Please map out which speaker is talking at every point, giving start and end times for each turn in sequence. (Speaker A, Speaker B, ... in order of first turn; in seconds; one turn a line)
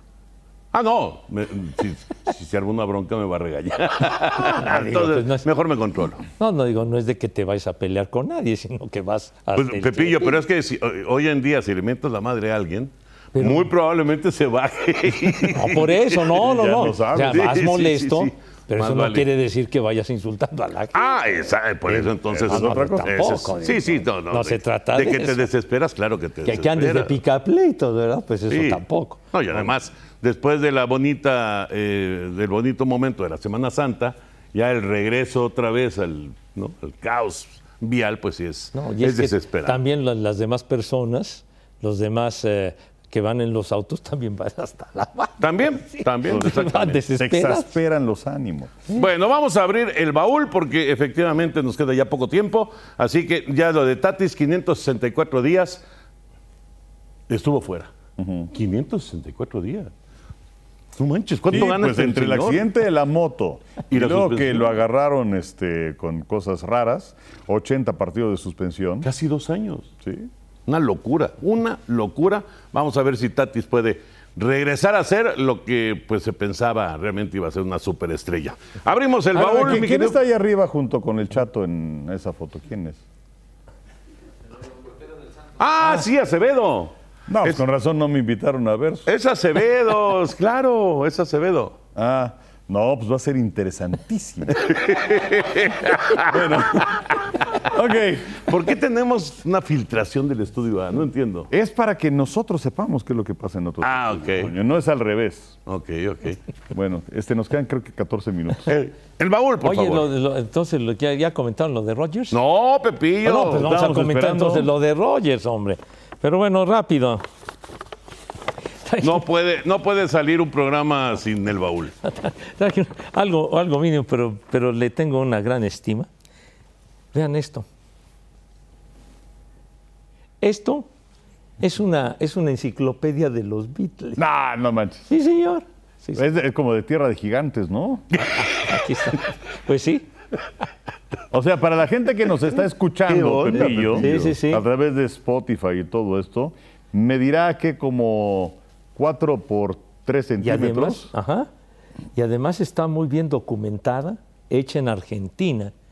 Speaker A: 0.7-6.2
Speaker B: 4.4-5.5
Speaker B: 6.4-10.4
Speaker A: 9.6-19.3
Speaker B: 13.3-13.7
Speaker B: 15.5-21.1
Speaker C: 16.4-17.5
Speaker A: 20.9-27.1
Speaker C: 21.9-23.8
Speaker B: 22.5-25.5
Speaker B: 26.5-29.2
Speaker A: 28.5-28.8
Speaker A: 29.3-39.8
Speaker B: 38.7-47.7
Speaker A: 45.4-47.0
Speaker C: 47.1-48.8
Speaker A: 48.9-55.8
Speaker A: 57.3-57.9
Speaker C: 58.2-58.5
Speaker A: 58.5-59.9
Speaker A: 61.0-62.7
Speaker C: 61.5-69.1
Speaker A: 63.9-64.7
Speaker A: 69.0-69.9
Speaker C: 70.0-70.3
Speaker A: 70.7-80.2
Speaker C: 79.3-83.0
Speaker A: 85.6-86.9
Speaker C: 87.3-89.1
Speaker A: 89.1-91.8
Speaker C: 92.0-94.7
Speaker A: 94.6-97.1
Speaker C: 96.3-97.0
Speaker C: 97.6-98.5
Speaker A: 98.4-101.5
Speaker C: 101.5-105.6
Speaker A: 103.8-104.5
Speaker A: 105.7-106.4
Speaker C: 106.7-108.7
Speaker A: 108.7-110.1
Speaker B: 109.6-112.4
Speaker A: 112.3-113.7
Speaker B: 113.2-117.2
Speaker C: 113.6-114.7
Speaker B: 118.8-119.2
Speaker A: 119.0-121.9
Speaker B: 122.0-126.1
Speaker B: 127.1-127.7
Speaker B: 130.4-130.9
Speaker B: 131.6-134.2
Speaker C: 134.2-135.1
Speaker B: 135.1-136.2
Speaker C: 136.2-138.1
Speaker B: 138.4-140.1
Speaker C: 141.3-151.1
Speaker A: 143.1-144.2
Speaker B: 143.5-144.6
Speaker B: 150.4-151.5
Speaker B: 152.2-155.7